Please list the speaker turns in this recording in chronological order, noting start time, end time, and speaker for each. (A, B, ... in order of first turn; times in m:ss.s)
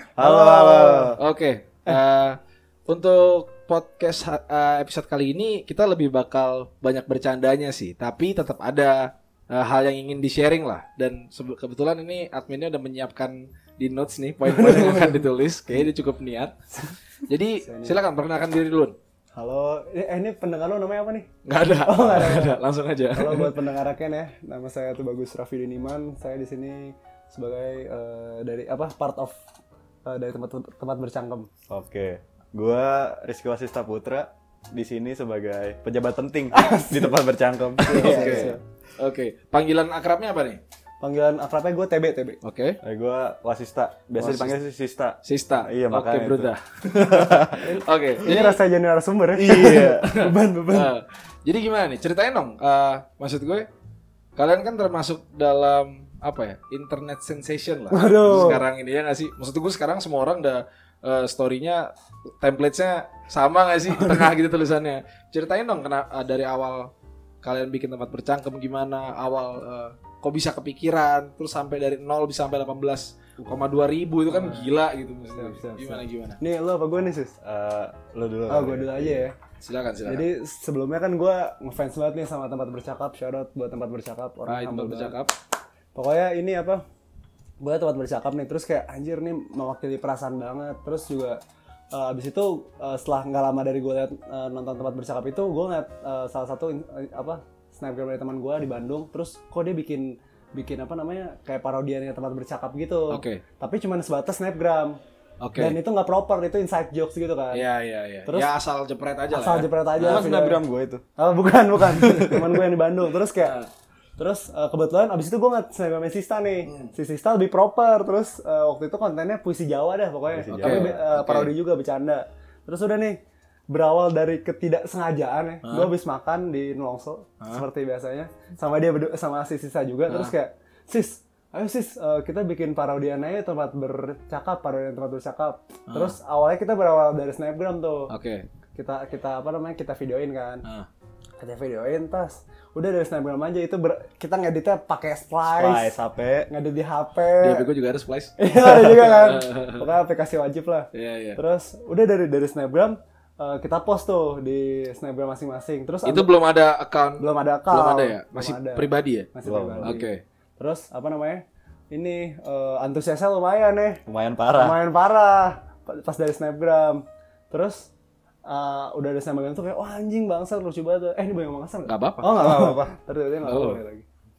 0:00.2-0:01.2 A
0:00.2-0:01.2 B
0:01.2-0:16.6 C
0:14.5-0:15.2 B
0:17.3-0:19.0 C
0:17.6-0:18.0 B
0:19.4-0:21.3 B
0:21.4-0:23.5 C
0:21.8-0:22.6 B
0:23.1-0:29.4 B
0:30.1-0:31.5 B
0:31.7-0:38.6 A
0:36.5-0:37.2 B
0:37.8-0:38.6 B
0:37.9-0:40.6 C
0:41.0-0:42.4 B
0:42.4-0:42.8 C
0:42.8-0:47.7 A
0:44.2-0:44.5 C
0:45.2-0:48.6 C
0:47.6-0:50.9 B
0:49.4-0:50.1 A
0:49.8-0:53.7 C
0:54.4-1:06.9 C
0:57.9-0:58.6 B
1:03.9-1:04.3 B
1:07.4-1:16.4 C
1:14.3-1:14.7 B
1:15.3-1:17.3 B
1:17.4-1:19.3 A
1:18.5-1:19.4 B
1:19.6-1:20.3 C
1:20.1-1:25.2 B
1:24.5-1:25.3 C
1:26.0-1:26.8 B
1:27.6-1:31.4 B
1:31.9-1:45.0 B
1:43.1-1:43.4 C
1:45.4-1:45.8 C
1:45.6-1:47.6 B
1:47.5-1:50.2 C
1:49.3-1:50.6 B
1:50.0-1:51.0 A
1:51.2-1:53.5 B
1:51.8-1:52.6 A
1:53.4-1:53.7 C
1:54.2-2:03.2 B
1:56.7-1:56.9 C
2:00.3-2:01.0 A
2:00.6-2:01.5 C
2:03.7-2:18.1 B
2:05.6-2:05.9 C
2:10.1-2:10.4 C
2:15.9-2:16.2 C
2:18.1-2:18.4 C
2:18.8-2:20.6 B
2:21.4-2:25.9 B
2:25.5-2:26.5 A
2:26.5-2:27.7 B
2:27.4-2:29.9 C
2:28.4-2:36.3 B
2:30.9-2:31.4 C
2:36.0-2:39.3 C
2:37.2-2:44.0 B
2:39.4-2:40.0 A
2:39.8-2:40.2 C
2:44.1-2:44.8 A
2:44.6-2:47.9 B
2:48.4-2:54.0 B
2:51.9-2:52.3 C
2:52.3-2:52.9 A
2:53.4-2:53.8 C